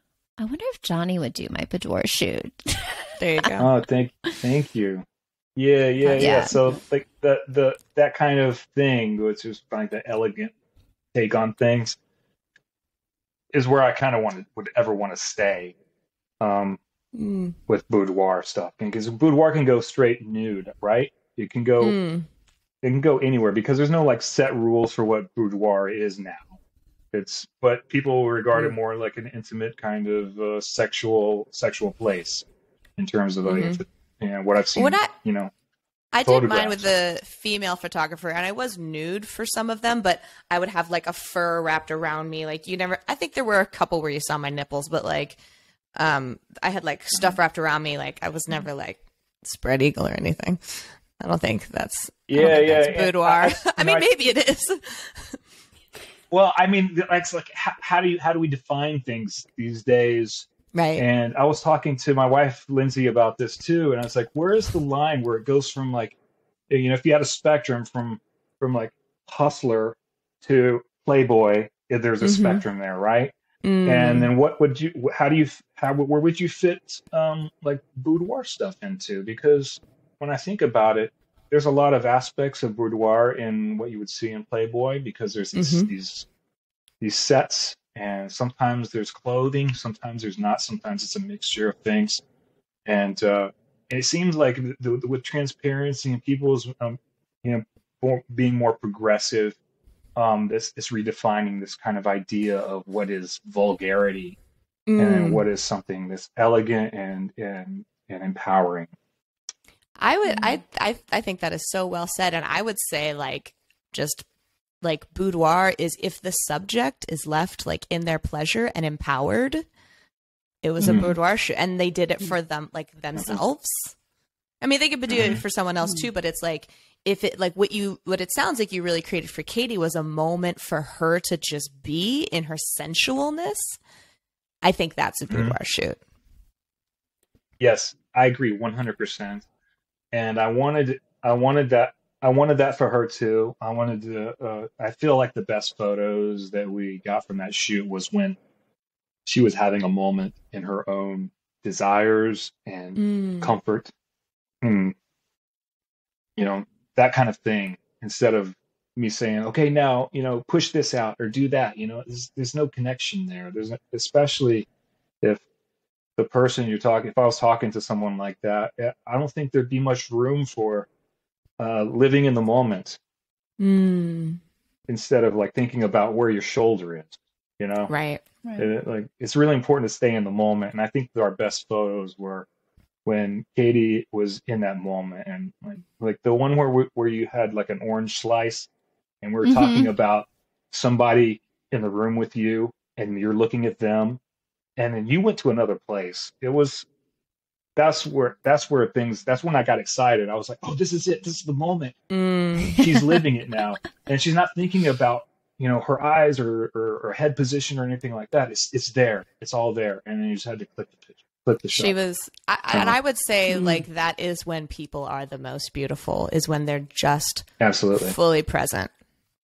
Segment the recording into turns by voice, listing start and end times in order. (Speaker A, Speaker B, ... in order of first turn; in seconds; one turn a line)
Speaker A: 0.4-3.5
Speaker B: 3.2-3.7
Speaker C: 3.6-5.0
Speaker C: 5.5-10.5
Speaker A: 6.0-6.6
Speaker C: 11.1-12.0
Speaker C: 13.5-15.7
Speaker C: 16.4-16.8
Speaker B: 17.1-17.6
Speaker C: 17.7-22.0
Speaker B: 21.8-22.2
Speaker C: 22.8-26.5
Speaker C: 27.1-32.4
Speaker C: 33.0-35.5
Speaker B: 33.4-33.8
Speaker B: 34.8-35.1
Speaker B: 36.1-45.4
Speaker C: 36.2-36.9
Speaker B: 46.0-55.4
Speaker C: 52.3-54.1
Speaker C: 56.3-66.2
Speaker B: 60.7-61.0
Speaker C: 66.7-86.3
Speaker B: 72.2-72.6
Speaker B: 73.6-74.3
Speaker B: 85.5-85.9
Speaker C: 87.0-92.2
Speaker C: 92.8-99.5
Speaker C: 100.2-104.4
Speaker B: 104.9-105.4
Speaker C: 105.0-108.9
Speaker B: 110.0-114.2
Speaker B: 114.8-119.6
Speaker B: 120.6-123.9
Speaker C: 120.8-121.1
Speaker B: 124.6-133.8
Speaker C: 125.1-125.4
Speaker B: 134.6-136.0
Speaker C: 135.3-135.5
Speaker C: 137.6-139.4
Speaker C: 140.1-148.4
Speaker C: 149.2-153.9
Speaker B: 153.0-153.5
Speaker C: 154.6-154.9
Speaker C: 156.4-164.7
Speaker C: 166.2-170.9
Speaker C: 171.6-173.0
Speaker B: 173.6-174.4
Speaker C: 174.9-177.9
Speaker B: 177.9-178.2
Speaker C: 178.6-182.5
Speaker C: 183.0-188.7
Speaker C: 189.2-194.2
Speaker A: 189.4-189.9
Speaker C: 194.8-196.8
Speaker C: 197.8-202.0
Speaker B: 202.1-202.9
Speaker C: 202.7-212.0
Speaker B: 211.7-217.5
Speaker C: 212.7-213.0
Speaker C: 217.6-218.2
Speaker B: 218.0-218.9